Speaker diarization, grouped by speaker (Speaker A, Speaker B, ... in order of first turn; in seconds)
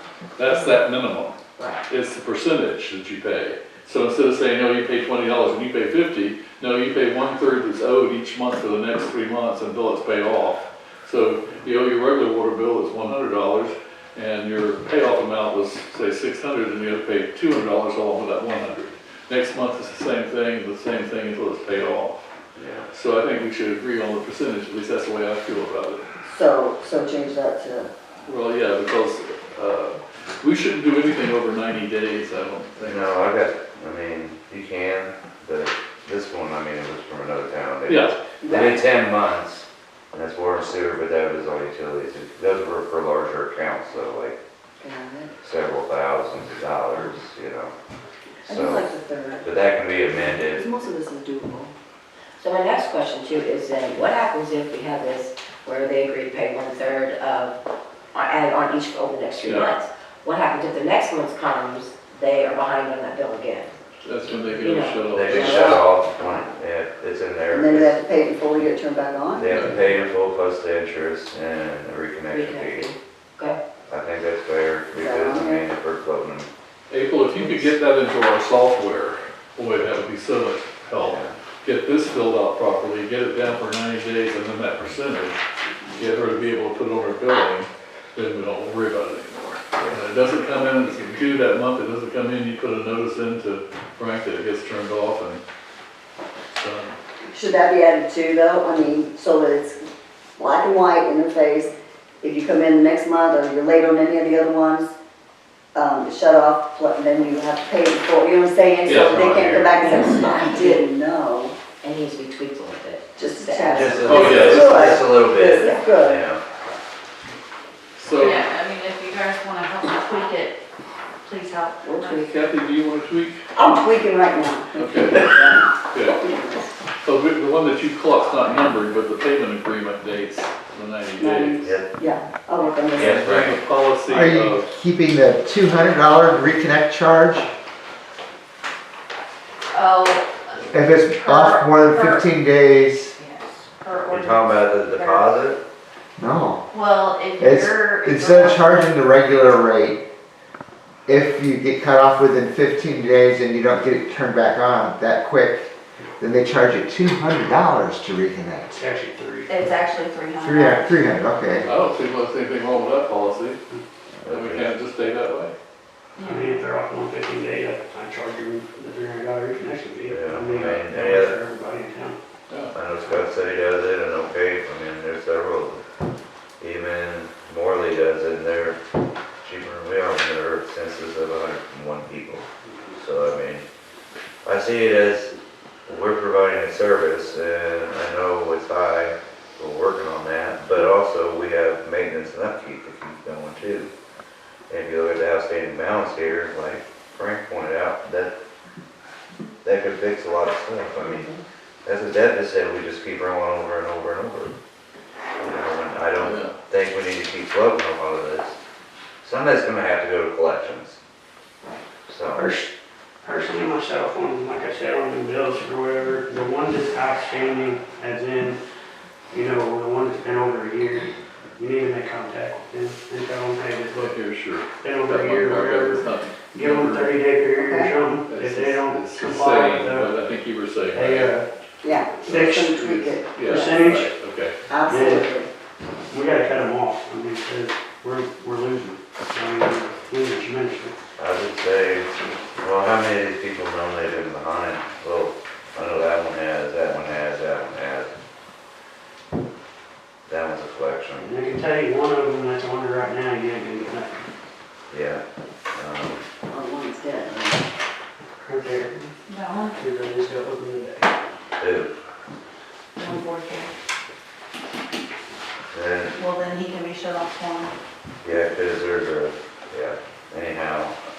Speaker A: 0.3-22.2, 22.9-26.0, 28.2-33.1, 37.9-38.1, 59.4-59.7, 64.0-65.8, 69.5-69.8, 76.9-85.4, 85.9-95.4, 96.5-97.0, 108.8-109.2, 114.1-115.0, 118.0-118.4, 122.0-123.4, 124.7-125.3, 125.9-126.2, 127.0-131.8, 132.9-134.7, 161.7-163.6, 164.3-165.5, 172.5-172.7, 206.2-206.5, 223.9-227.1, 228.3-231.3, 232.2-234.5
Speaker B: 22.6-22.9, 32.8-44.4, 45.4-47.7, 48.5-48.9, 49.4-50.6, 65.1-68.0, 69.3-72.9, 73.9-76.5, 81.0-81.3, 89.7-90.0, 108.9-109.8, 113.7-116.4, 131.6-131.9, 132.9-133.6, 144.1-145.6, 164.2-164.7, 170.1-171.4, 172.7-175.8, 176.6-178.8, 179.4-183.6, 184.4-185.3, 185.8-193.9, 194.7-198.3, 199.6-201.3, 201.8-204.5, 205.4-208.6, 209.2-211.0, 212.1-212.5, 241.2-248.1, 250.3-251.3, 254.9-256.2, 261.6-261.9, 265.7-266.1, 268.2-270.9
Speaker C: 26.2-27.9, 38.4-38.9, 44.8-45.3, 48.4-49.5, 50.3-51.7, 67.5-69.5, 75.0-75.7, 97.3-99.8, 100.4-104.9, 105.7-111.5, 113.2-116.2, 121.8-122.2, 123.5-126.7, 131.2-133.2, 227.6-227.9, 231.8-233.7, 234.7-235.5, 256.5-257.6
Speaker D: 52.4-57.5, 58.1-63.7, 64.5-66.4, 72.3-73.6, 109.8-110.8, 111.8-114.6, 115.5-115.9
Speaker E: 118.2-120.6, 121.2-122.3, 139.7-142.3, 143.2-145.3, 146.7-148.9, 159.5-160.9, 166.2-166.6, 259.3-259.8, 262.9-263.7, 266.1-267.7
Speaker F: 134.1-137.5, 140.7-143.2, 146.2-146.6, 147.3-150.0, 151.1-158.8, 160.4-161.7
Speaker G: 158.8-159.6, 166.2-172.2, 212.3-212.7, 213.2-218.6, 219.3-224.1, 224.8-230.2, 230.9-231.4, 232.2-232.6, 233.5-234.1, 234.9-235.3, 236.1-240.9, 251.2-254.2, 258.4-259.1, 259.8-261.1